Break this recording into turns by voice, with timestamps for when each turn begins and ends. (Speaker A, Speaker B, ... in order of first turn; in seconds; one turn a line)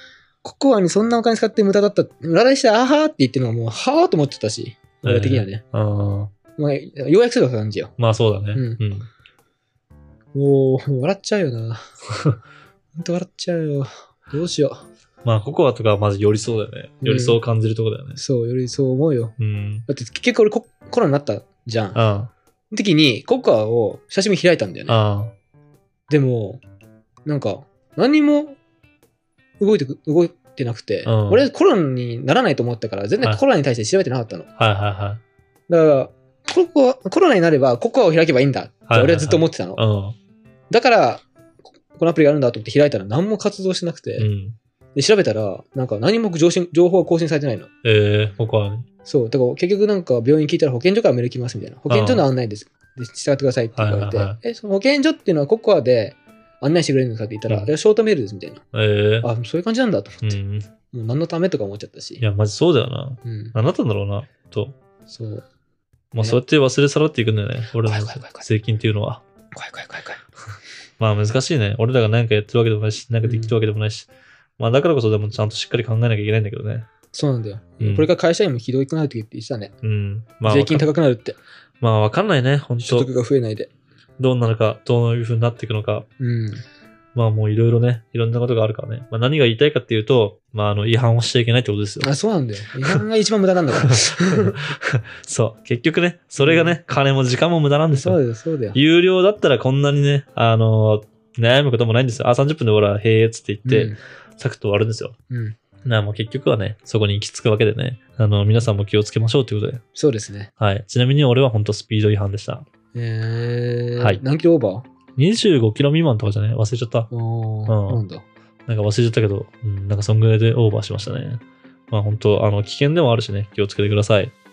Speaker A: 0.4-5.6
Speaker B: 5.0-6.3
Speaker A: 6.6-7.9
Speaker B: 8.0-9.1
Speaker A: 8.5-8.8
Speaker A: 10.3-11.9
Speaker A: 13.0-14.9
Speaker B: 15.2-18.2
Speaker A: 17.0-17.4
Speaker A: 18.2-19.4
Speaker B: 19.4-19.9
Speaker A: 19.9-22.0
Speaker B: 21.9-22.3
Speaker A: 22.7-25.0
Speaker B: 24.9-25.3
Speaker A: 26.1-26.6
Speaker A: 27.2-28.6
Speaker A: 29.6-34.5
Speaker B: 31.1-31.4
Speaker B: 34.6-35.2
Speaker A: 35.7-39.8
Speaker B: 38.9-40.2
Speaker A: 40.7-41.2
Speaker A: 42.0-44.3
Speaker B: 44.2-44.6
Speaker A: 45.0-47.7
Speaker B: 47.8-48.9
Speaker A: 49.1-58.6
Speaker B: 51.9-52.2
Speaker B: 53.8-54.4
Speaker B: 58.7-59.3
Speaker A: 59.2-60.4
Speaker B: 60.2-60.7
Speaker A: 60.9-62.2
Speaker B: 62.2-64.8
Speaker A: 63.2-63.5
Speaker A: 65.1-65.5
Speaker B: 66.1-69.2
Speaker A: 67.8-68.5
Speaker A: 69.5-70.2
Speaker B: 71.0-76.9
Speaker A: 73.2-73.5
Speaker A: 77.1-79.7
Speaker B: 77.8-78.1
Speaker B: 79.8-80.9
Speaker A: 80.5-81.4
Speaker B: 81.8-83.1
Speaker A: 82.8-83.7
Speaker B: 84.2-86.1
Speaker A: 86.2-86.6
Speaker B: 87.2-92.1
Speaker A: 92.0-94.6
Speaker B: 93.8-98.2
Speaker A: 96.4-96.8
Speaker A: 98.0-98.8
Speaker B: 98.7-105.2
Speaker A: 103.7-104.0
Speaker A: 105.3-105.6
Speaker B: 105.8-109.8
Speaker A: 110.0-110.5
Speaker B: 110.6-112.7
Speaker A: 112.9-114.9
Speaker B: 115.2-117.1
Speaker A: 117.1-118.2
Speaker B: 117.7-118.0
Speaker B: 118.7-124.3